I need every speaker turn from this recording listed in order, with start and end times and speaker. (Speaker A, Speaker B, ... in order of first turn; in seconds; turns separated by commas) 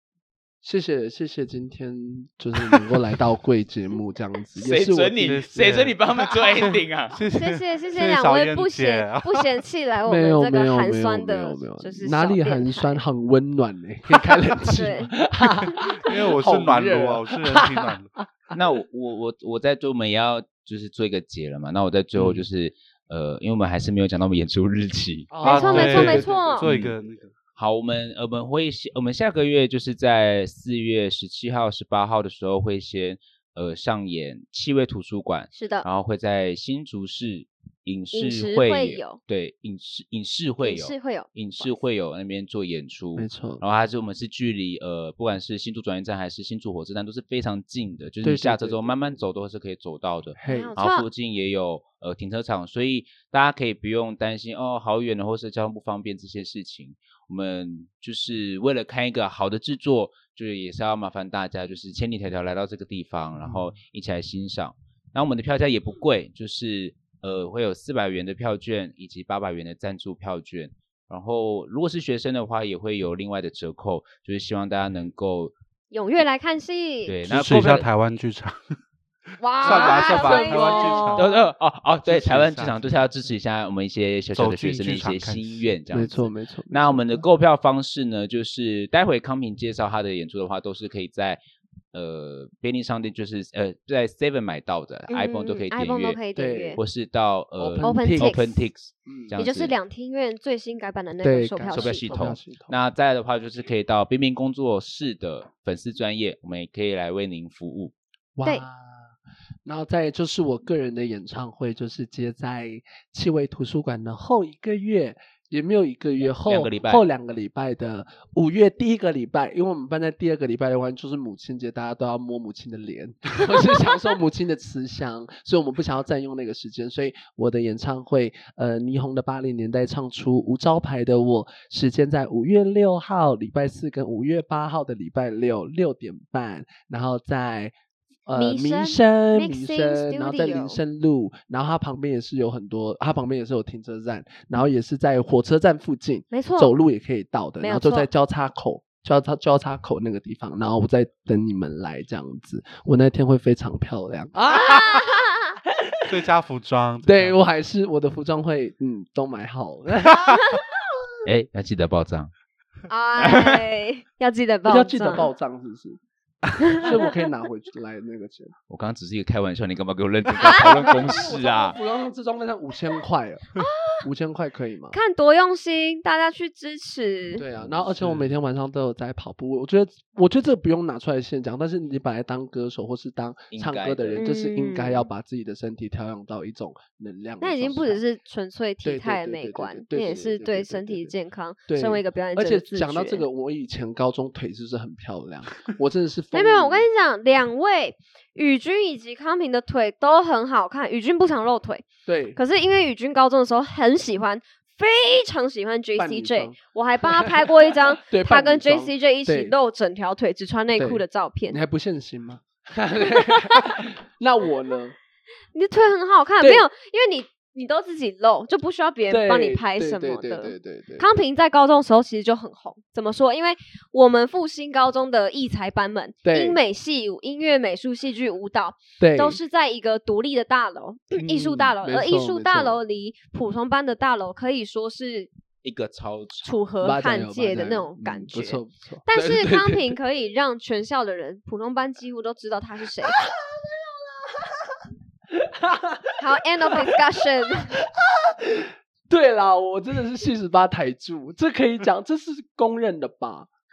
Speaker A: 0.6-5.4, Speaker B: 4.6-7.2, Speaker C: 5.2-9.6, Speaker D: 7.3-13.0, Speaker A: 10.1-18.3, Speaker D: 14.7-15.1, Speaker C: 15.7-18.1, Speaker B: 18.6-25.3, Speaker A: 22.2-22.4, Speaker A: 25.3-26.8, Speaker D: 25.4-26.7, Speaker C: 25.4-27.3, Speaker B: 26.6-26.9, Speaker B: 27.6-75.5, Speaker D: 35.5-35.9, Speaker D: 38.1-39.2, Speaker D: 40.6-41.8, Speaker A: 43.2-43.6, Speaker A: 48.2-49.2, Speaker A: 50.4-50.8, Speaker D: 50.5-51.1, Speaker A: 63.4-63.7, Speaker D: 75.9-77.1, Speaker B: 77.1-77.9, Speaker C: 77.3-78.8, Speaker D: 79.4-81.2, Speaker C: 79.6-81.3, Speaker A: 79.6-81.4, Speaker B: 81.2-91.4, Speaker C: 82.1-83.0, Speaker C: 84.3-85.7, Speaker A: 85.9-87.2, Speaker B: 91.9-96.2, Speaker D: 95.1-96.8, Speaker A: 96.4-96.8, Speaker B: 96.8-99.8, Speaker A: 97.6-98.4, Speaker D: 97.8-98.6, Speaker A: 99.1-99.4, Speaker D: 99.4-102.1, Speaker A: 101.2-102.8, Speaker B: 101.7-107.9, Speaker A: 108.4-137.7, Speaker B: 116.2-117.0, Speaker A: 138.3-156.0, Speaker D: 138.3-140.8, Speaker D: 146.3-146.7, Speaker D: 147.6-148.1, Speaker D: 154.5-155.6, Speaker C: 156.1-157.4, Speaker A: 157.0-160.4, Speaker B: 161.2-162.3, Speaker D: 162.9-165.3, Speaker B: 163.2-163.7, Speaker A: 164.6-166.0, Speaker D: 166.6-166.9, Speaker A: 166.7-168.5, Speaker B: 168.7-171.8, Speaker D: 170.4-170.8, Speaker A: 170.6-175.0, Speaker D: 173.6-174.0, Speaker D: 174.9-177.4, Speaker A: 177.3-188.0, Speaker B: 183.5-184.2, Speaker D: 184.2-185.1, Speaker D: 187.4-193.3, Speaker A: 188.8-191.1, Speaker A: 191.7-196.9, Speaker D: 196.3-201.8, Speaker A: 202.1-202.4, Speaker D: 202.4-211.6, Speaker A: 205.9-206.6, Speaker A: 207.2-209.6, Speaker A: 210.8-214.9, Speaker D: 213.2-213.7, Speaker D: 215.5-235.3, Speaker A: 216.4-216.7, Speaker A: 219.1-221.1, Speaker A: 226.2-226.6, Speaker A: 229.0-229.4, Speaker A: 231.2-232.8, Speaker B: 235.6-236.5, Speaker D: 236.4-243.2, Speaker A: 236.8-239.9, Speaker A: 243.1-247.0, Speaker D: 246.2-247.8, Speaker A: 247.7-253.5